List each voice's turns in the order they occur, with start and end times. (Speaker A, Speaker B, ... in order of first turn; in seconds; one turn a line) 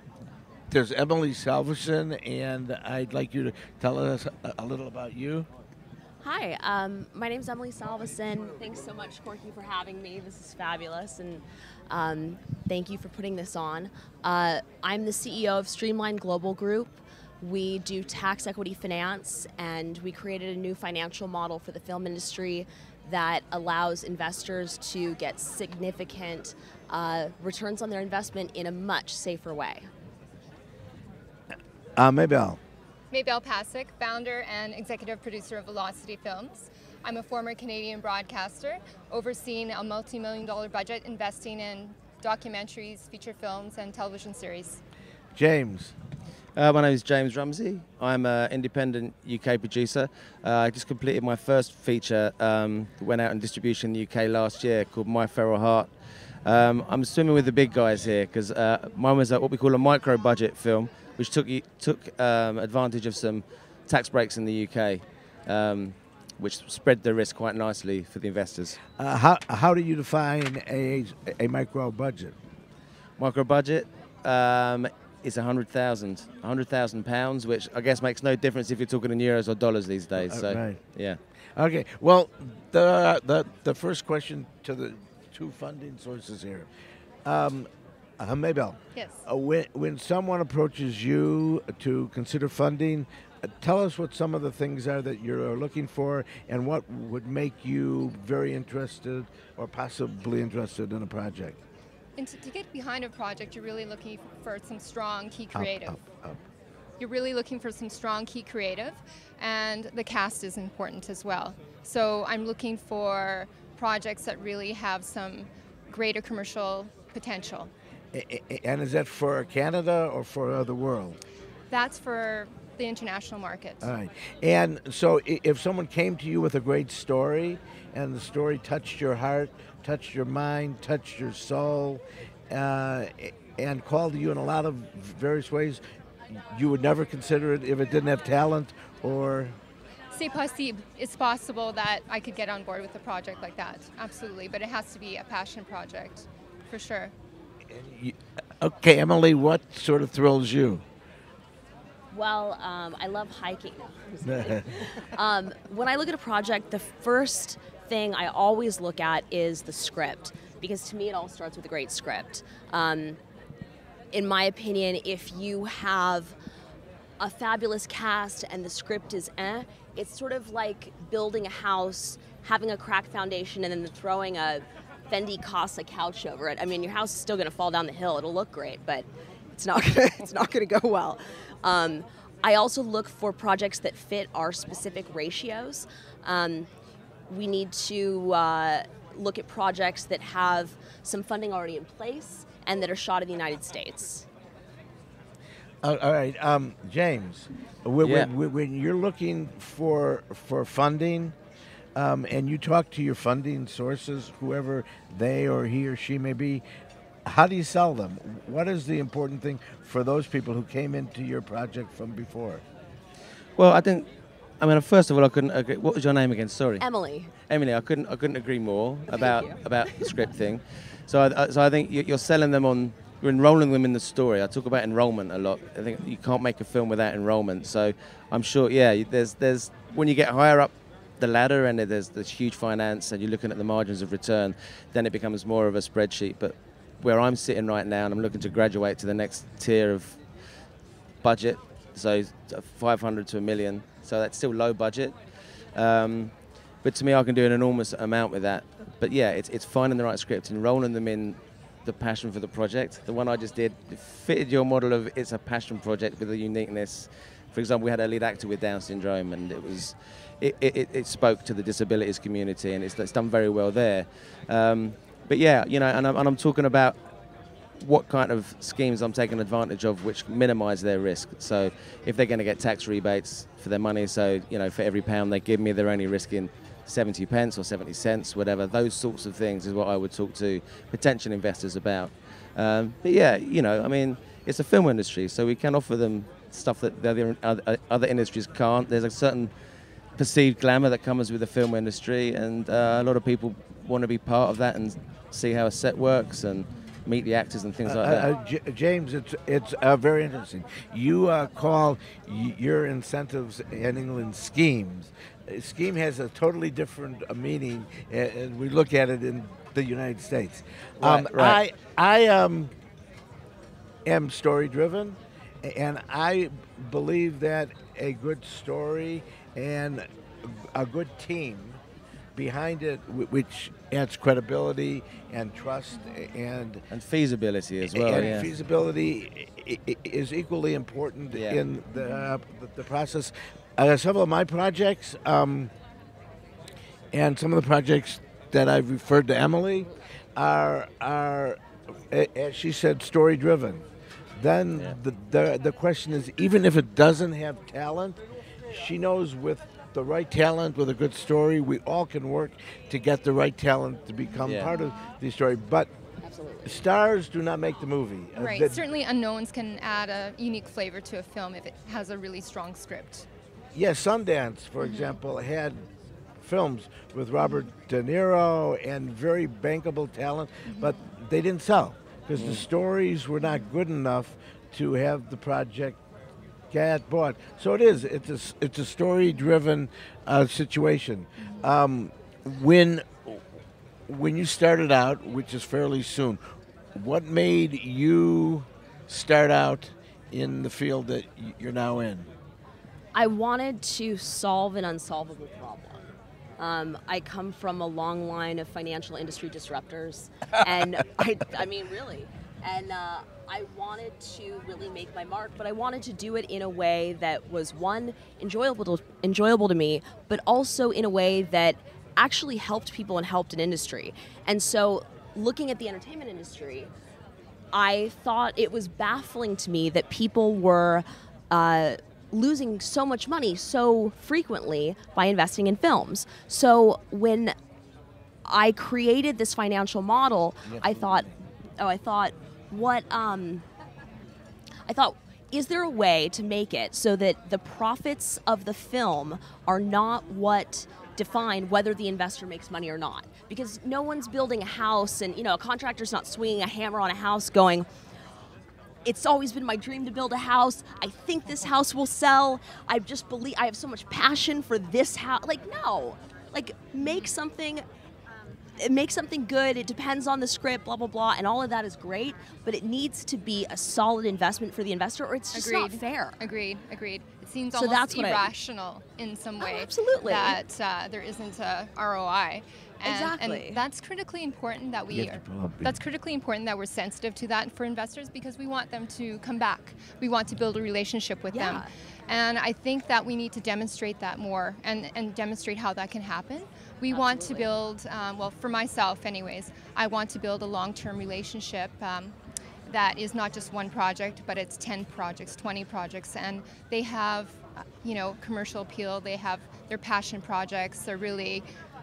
Speaker A: 0.7-5.5
Speaker B: 6.2-29.9
Speaker A: 32.0-32.6
Speaker C: 33.1-44.8
Speaker A: 45.4-46.0
Speaker D: 46.5-55.9
Speaker D: 56.4-68.8
Speaker A: 69.0-72.3
Speaker D: 73.2-81.2
Speaker A: 80.2-80.8
Speaker A: 81.6-86.7
Speaker A: 87.2-87.7
Speaker A: 88.2-101.6
Speaker C: 89.0-89.2
Speaker C: 102.2-106.0
Speaker A: 105.5-106.4
Speaker C: 107.0-117.7
Speaker A: 118.1-121.2
Speaker C: 121.7-123.9
Speaker A: 123.8-135.8
Speaker A: 136.4-139.6
Speaker C: 140.1-147.1
Speaker A: 147.7-150.8
Speaker B: 152.1-163.2
Speaker A: 154.3-154.6
Speaker B: 164.1-166.4
Speaker B: 167.2-186.7
Speaker B: 187.3-194.3
Speaker A: 195.8-201.3
Speaker D: 198.0-198.3
Speaker A: 201.9-206.6
Speaker A: 207.2-212.6
Speaker D: 213.6-214.1
Speaker D: 214.6-216.8
Speaker B: 216.8-217.3
Speaker D: 217.5-240.2
Speaker B: 219.1-220.2
Speaker D: 241.2-245.2
Speaker D: 245.7-267.0
Speaker D: 267.8-289.5
Speaker D: 290.2-298.3
Speaker A: 297.9-312.7
Speaker D: 311.0-311.6
Speaker A: 314.1-321.8
Speaker A: 322.4-326.8
Speaker D: 326.9-328.5
Speaker A: 327.9-335.7
Speaker C: 328.1-328.4
Speaker D: 331.3-331.6
Speaker C: 332.0-332.3
Speaker A: 337.1-341.6
Speaker A: 342.1-343.9
Speaker A: 344.4-355.9
Speaker D: 354.4-354.7
Speaker B: 356.2-356.8
Speaker A: 356.6-358.8
Speaker C: 358.4-363.3
Speaker A: 363.8-365.9
Speaker C: 364.8-365.2
Speaker A: 366.4-376.0
Speaker C: 370.7-371.1
Speaker D: 372.4-372.6
Speaker A: 376.7-383.4
Speaker A: 384.1-386.4
Speaker A: 386.9-392.3
Speaker B: 393.1-396.0
Speaker B: 396.6-416.9
Speaker B: 417.7-427.6
Speaker B: 428.4-433.6
Speaker A: 430.6-431.3
Speaker B: 434.9-447.9
Speaker B: 449.1-457.8
Speaker C: 457.0-457.3
Speaker B: 458.8-466.4
Speaker C: 465.5-492.4
Speaker B: 467.7-468.5
Speaker B: 469.6-470.6
Speaker B: 473.0-473.8
Speaker A: 475.1-476.0
Speaker B: 481.5-481.9
Speaker B: 487.1-487.8
Speaker C: 492.9-501.6